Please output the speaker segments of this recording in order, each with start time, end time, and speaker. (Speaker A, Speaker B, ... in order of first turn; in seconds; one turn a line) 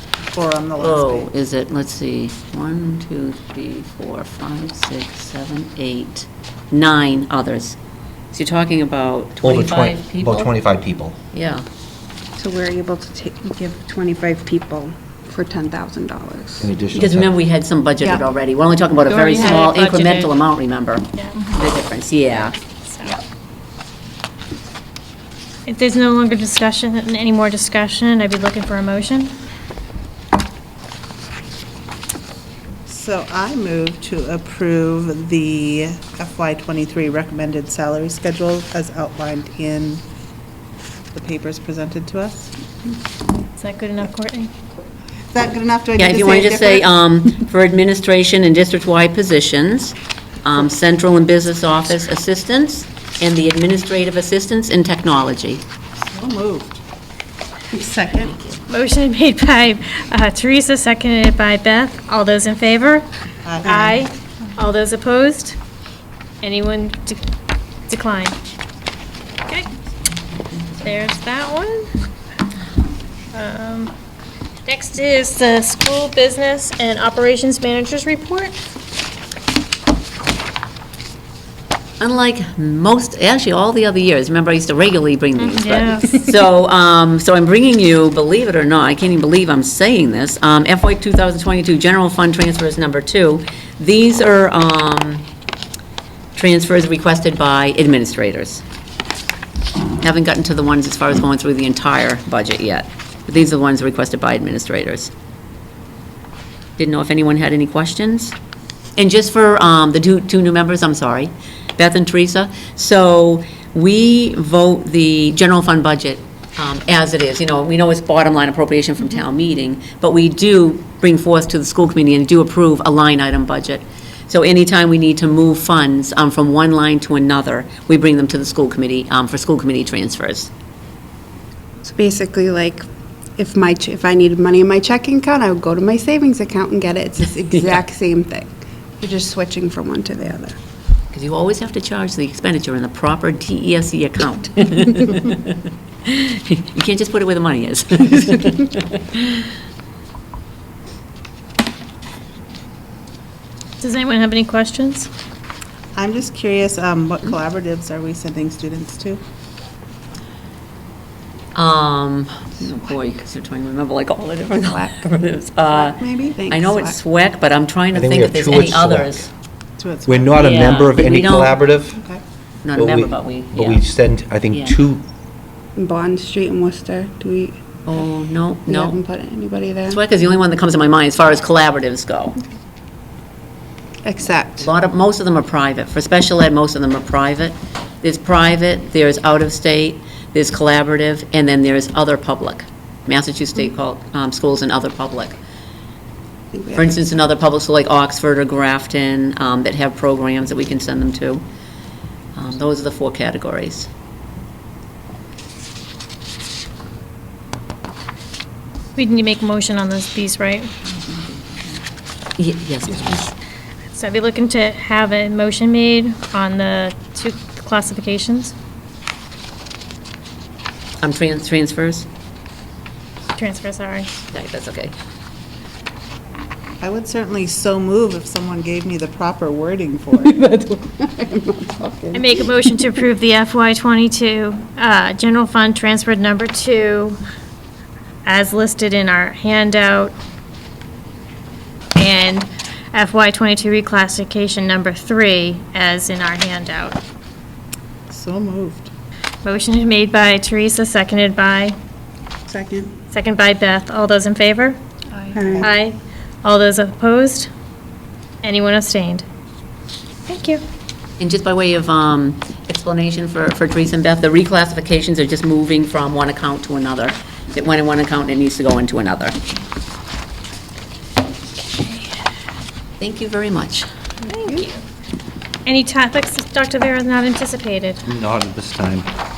Speaker A: 0.3-1.3
Speaker B: 0.8-7.8
Speaker B: 8.3-10.5
Speaker C: 9.4-11.2
Speaker B: 11.3-11.7
Speaker D: 12.4-16.7
Speaker C: 16.6-17.4
Speaker B: 16.9-22.6
Speaker E: 19.1-20.3
Speaker E: 22.9-23.2
Speaker E: 25.7-29.4
Speaker A: 32.9-40.0
Speaker A: 41.1-42.5
Speaker E: 43.6-44.5
Speaker A: 45.3-46.9
Speaker B: 46.0-55.6
Speaker A: 56.0-56.8
Speaker A: 57.8-58.3
Speaker B: 58.2-58.6
Speaker E: 58.7-63.1
Speaker A: 63.5-64.0
Speaker E: 63.6-65.6
Speaker E: 66.4-67.2
Speaker E: 67.9-68.4
Speaker E: 70.8-71.9
Speaker E: 73.3-73.9
Speaker E: 74.7-78.6
Speaker B: 82.0-95.3
Speaker E: 85.4-86.2
Speaker B: 96.3-98.6
Speaker B: 100.0-105.1
Speaker B: 106.8-108.4
Speaker B: 109.0-130.5
Speaker D: 131.8-132.8
Speaker D: 133.4-140.6
Speaker B: 137.5-137.8
Speaker B: 141.1-149.5
Speaker E: 153.8-155.1
Speaker A: 155.9-159.2
Speaker B: 161.6-169.3
Speaker D: 164.7-165.0
Speaker A: 165.8-166.4
Speaker D: 166.3-167.0
Speaker C: 167.9-169.2
Speaker A: 169.8-170.4
Speaker C: 170.1-172.0
Speaker B: 170.3-171.6
Speaker A: 171.9-172.2
Speaker B: 172.6-173.8
Speaker C: 172.8-175.0
Speaker B: 174.5-174.8
Speaker D: 175.8-177.6
Speaker B: 177.9-179.0
Speaker D: 178.7-180.0
Speaker B: 179.9-182.4
Speaker D: 184.0-184.7
Speaker B: 184.6-195.4
Speaker D: 196.5-197.1
Speaker B: 196.8-201.4
Speaker B: 202.4-203.9
Speaker E: 209.0-210.7
Speaker B: 212.4-213.3
Speaker E: 213.9-218.5
Speaker B: 221.0-222.1
Speaker E: 223.3-224.1
Speaker B: 224.3-224.9
Speaker A: 226.8-230.4
Speaker D: 230.3-232.8
Speaker E: 232.1-237.2
Speaker E: 238.2-240.2
Speaker E: 242.0-247.0
Speaker A: 248.1-248.9
Speaker E: 249.4-251.8
Speaker A: 252.5-252.9
Speaker E: 253.1-254.8
Speaker D: 255.3-255.7
Speaker A: 255.3-255.7
Speaker E: 255.6-257.5
Speaker E: 258.4-259.2
Speaker E: 260.3-260.6
Speaker B: 261.2-269.4
Speaker E: 271.6-272.1
Speaker B: 273.0-273.9
Speaker E: 274.3-274.8
Speaker D: 274.3-274.6
Speaker E: 275.6-278.0
Speaker C: 278.1-279.1